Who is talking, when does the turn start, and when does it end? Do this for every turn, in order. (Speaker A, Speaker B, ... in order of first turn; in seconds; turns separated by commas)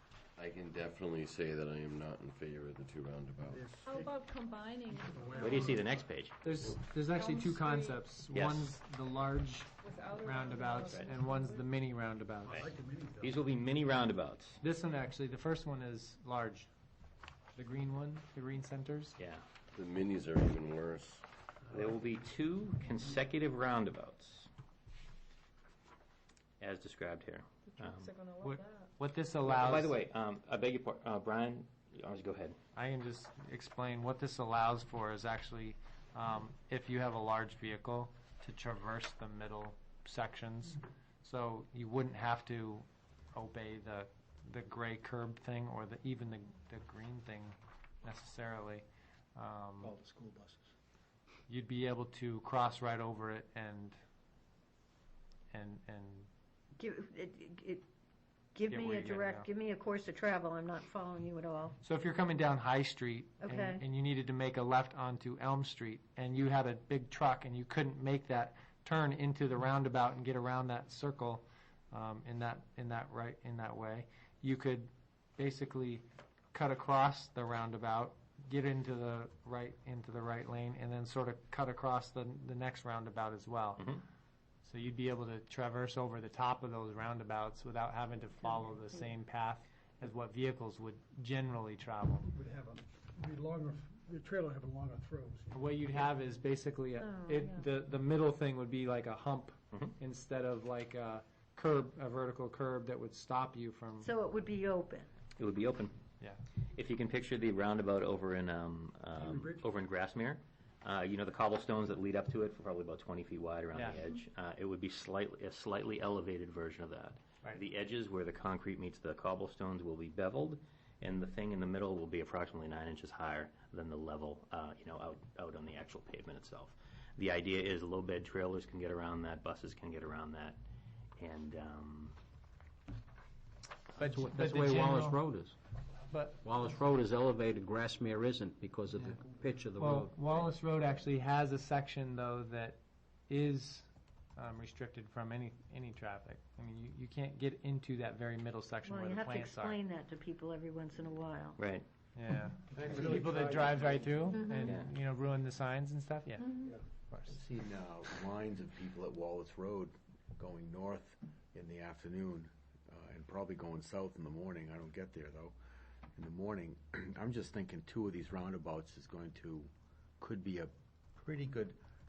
Speaker A: 0.4-3.8, Speaker B: 3.5-4.2, Speaker C: 3.8-5.8, Speaker B: 4.9-6.1, Speaker D: 5.3-6.4, Speaker E: 6.4-12.6, Speaker C: 7.0-8.0, Speaker D: 8.3-8.7, Speaker C: 9.8-11.7, Speaker D: 10.8-11.1, Speaker B: 12.4-13.4, Speaker D: 12.4-14.6, Speaker E: 14.6-16.7, Speaker E: 17.5-19.2, Speaker D: 19.2-19.4, Speaker A: 19.7-21.2, Speaker D: 21.7-24.5, Speaker D: 26.6-28.1, Speaker C: 27.8-28.9, Speaker E: 28.4-29.9, Speaker D: 29.4-32.6, Speaker E: 32.7-49.9, Speaker F: 49.8-50.6, Speaker E: 51.5-54.0, Speaker E: 55.5-56.3, Speaker G: 56.8-57.8, Speaker G: 58.5-61.8, Speaker E: 58.7-59.5, Speaker E: 61.8-83.8, Speaker G: 63.4-63.8, Speaker D: 83.8-84.0, Speaker E: 84.6-92.3, Speaker B: 92.2-95.6, Speaker E: 95.5-104.1, Speaker G: 97.1-97.6, Speaker G: 104.0-105.1, Speaker D: 105.4-105.9, Speaker D: 106.7-130.6, Speaker B: 109.1-109.7, Speaker E: 113.7-114.0, Speaker D: 131.2-132.2, Speaker E: 134.0-135.2, Speaker F: 134.0-135.6, Speaker E: 136.1-136.4, Speaker F: 136.4-140.2, Speaker E: 139.8-149.8, Speaker G: 148.8-151.6, Speaker D: 151.6-151.8, Speaker E: 152.1-156.5, Speaker B: 152.7-154.3, Speaker G: 154.3-154.8, Speaker D: 154.6-154.9, Speaker G: 156.4-156.7, Speaker E: 157.1-157.4, Speaker H: 157.3-165.6, Speaker H: 166.2-171.8